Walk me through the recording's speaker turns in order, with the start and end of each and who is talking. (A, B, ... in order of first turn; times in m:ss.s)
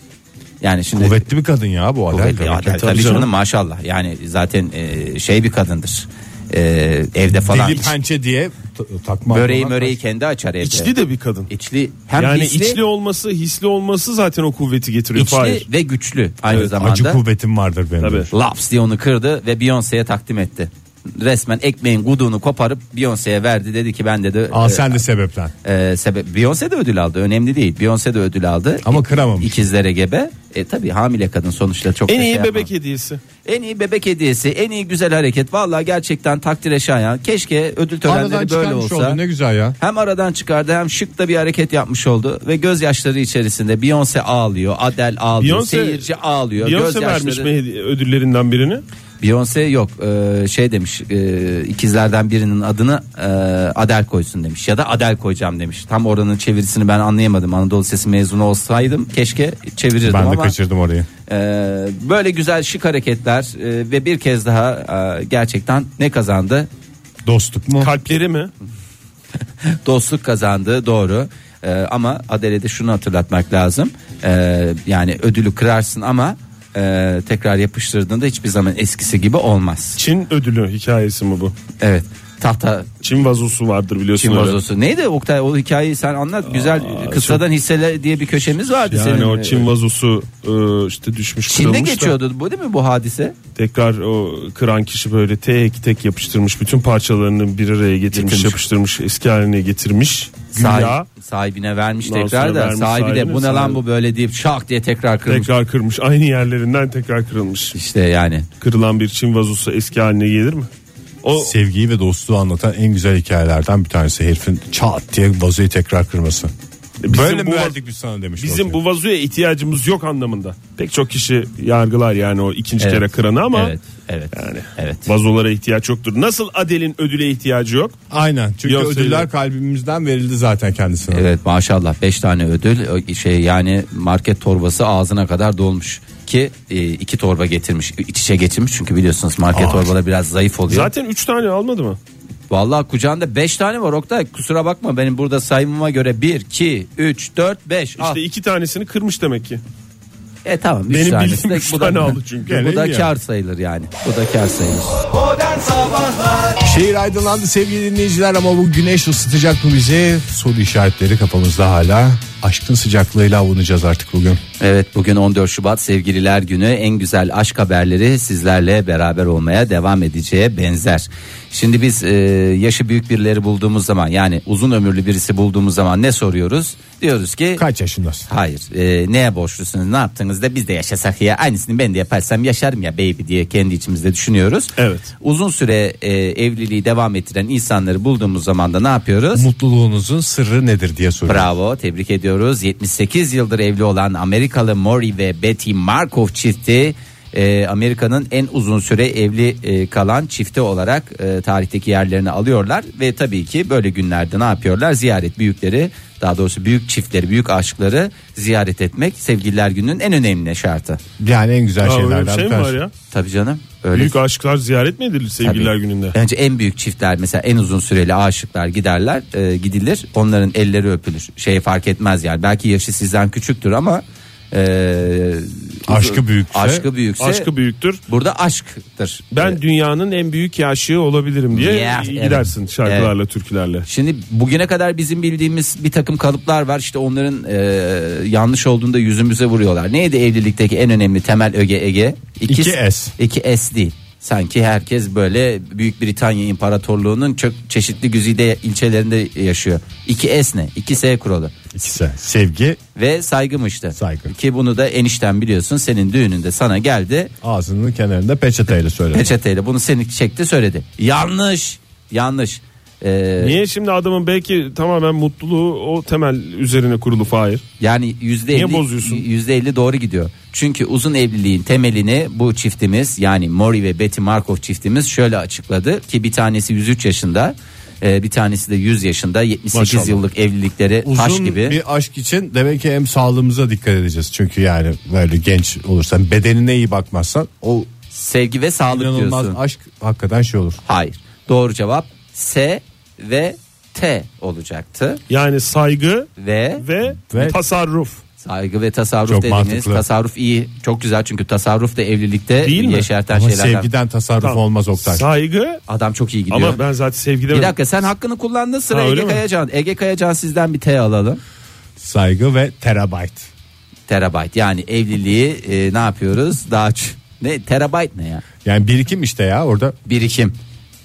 0:00.6-0:01.2 A
0:01.0-0:03.2 B
0:02.1-0:07.9 A
0:02.8-0:03.3 C
0:07.4-0:10.0 B
0:09.3-0:10.9 A
0:10.6-0:11.5 C
0:11.5-0:12.8 A
0:12.2-0:15.6 C
0:15.1-0:17.2 A
0:16.5-0:18.3 B
0:18.0-0:18.3 C
0:18.3-0:25.0 A
0:24.5-0:25.5 B
0:25.6-0:32.7 A
0:28.8-0:29.6 B
0:32.1-0:33.2 C
0:33.4-0:39.2 A
0:38.0-0:39.8 B
0:39.8-0:47.5 A
0:45.4-0:48.8 C
0:49.2-1:00.5 A
1:00.0-1:01.1 B
1:01.3-1:06.7 A
1:07.2-1:07.9 B
1:07.8-1:08.5 C
1:09.6-1:20.0 A
1:20.0-1:21.5 C
1:21.8-1:22.9 A
1:23.0-1:24.6 C
1:24.2-1:29.6 A
1:26.5-1:27.4 C
1:28.9-1:32.2 C
1:31.5-1:33.4 A
1:33.6-1:41.1 C
1:38.1-1:38.6 A
1:40.5-1:45.5 A
1:42.0-1:43.8 C
1:45.3-1:47.7 C
1:47.7-1:48.5 A
1:48.6-1:50.7 C
1:51.2-1:51.5 C
1:51.4-1:56.5 B
1:57.0-1:57.8 C
1:57.1-1:58.8 B
1:58.4-2:03.7 C
2:02.8-2:05.1 A
2:04.3-2:08.0 C
2:08.1-2:11.2 B
2:08.6-2:09.3 C
2:11.1-2:20.9 A
2:19.5-2:19.9 B
2:20.7-2:22.0 C
2:22.5-2:28.2 A
2:28.0-2:29.6 C
2:30.4-2:35.1 A
2:30.9-2:32.6 C
2:32.4-2:33.1 B
2:36.6-2:44.4 B
2:44.6-2:57.6 A
2:57.6-2:58.3 B
2:58.3-3:09.5 A
3:04.8-3:05.1 C
3:09.3-3:11.5 B
3:11.3-3:31.0 A
3:31.2-3:32.8 B
3:31.8-3:32.9 C
3:33.1-3:34.2 A
3:33.9-3:36.1 C
3:35.4-3:47.5 A
3:45.9-3:46.8 B
3:47.2-3:48.0 C
3:48.1-3:49.6 A
3:49.3-3:53.8 C
3:51.5-3:53.1 A
3:53.8-4:11.6 A
4:02.5-4:03.1 B
4:11.7-4:12.8 B
4:12.9-4:17.3 A
4:14.0-4:14.3 B
4:17.4-4:19.3 B
4:19.1-4:23.6 A
4:23.4-4:27.6 C
4:27.8-4:41.8 A
4:28.5-4:29.2 C
4:39.8-4:40.1 C
4:41.0-4:47.9 B
4:48.1-4:49.6 A
4:48.9-4:50.8 B
4:50.8-4:55.2 A
4:55.3-4:58.2 C
4:56.4-4:56.8 A
4:57.3-4:57.6 B
4:58.4-5:03.9 A
4:59.2-5:00.0 B
5:02.6-5:03.1 C
5:03.3-5:05.2 B
5:04.4-5:05.8 C
5:05.9-5:06.8 A
5:06.5-5:07.8 C
5:07.5-5:11.4 A
5:08.9-5:09.4 C
5:12.0-5:13.5 B
5:14.1-5:18.4 A
5:18.6-5:20.0 B
5:20.0-5:20.6 A